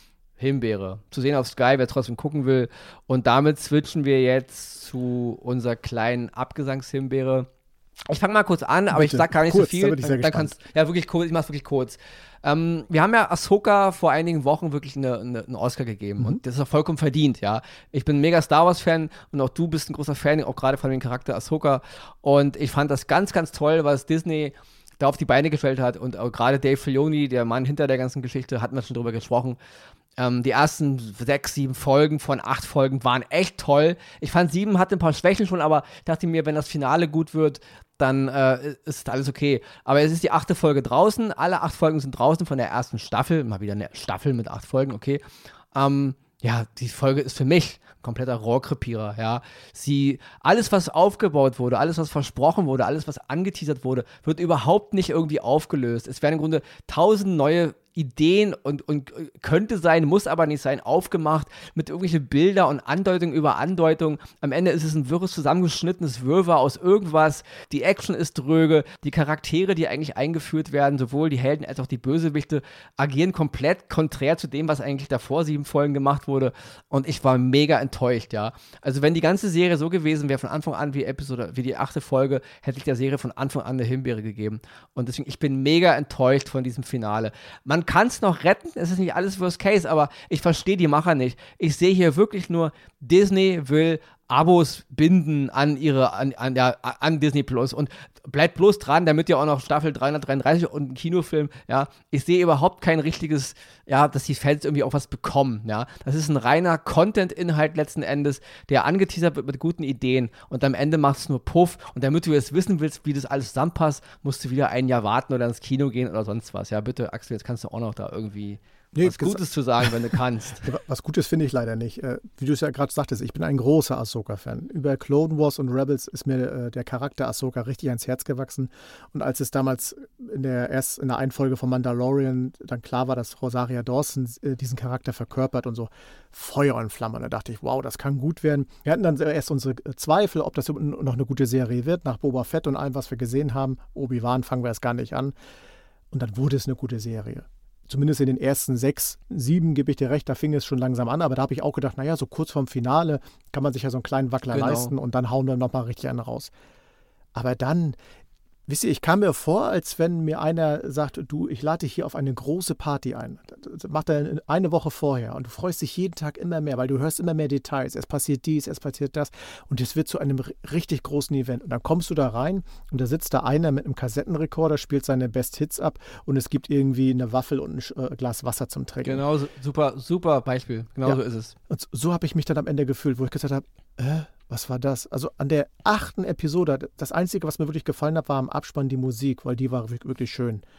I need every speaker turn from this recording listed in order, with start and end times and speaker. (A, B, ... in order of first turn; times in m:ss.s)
0:00.4-0:07.5 A
0:08.1-0:29.6 A
0:08.9-0:10.5 B
0:30.2-0:45.2 A
0:45.7-2:00.7 A
1:58.9-1:59.9 B
2:00.6-2:25.3 B
2:26.1-2:36.5 B
2:34.5-2:34.9 A
2:37.3-2:38.0 B
2:38.7-2:59.2 B
2:59.0-3:01.6 A
3:01.0-3:10.6 B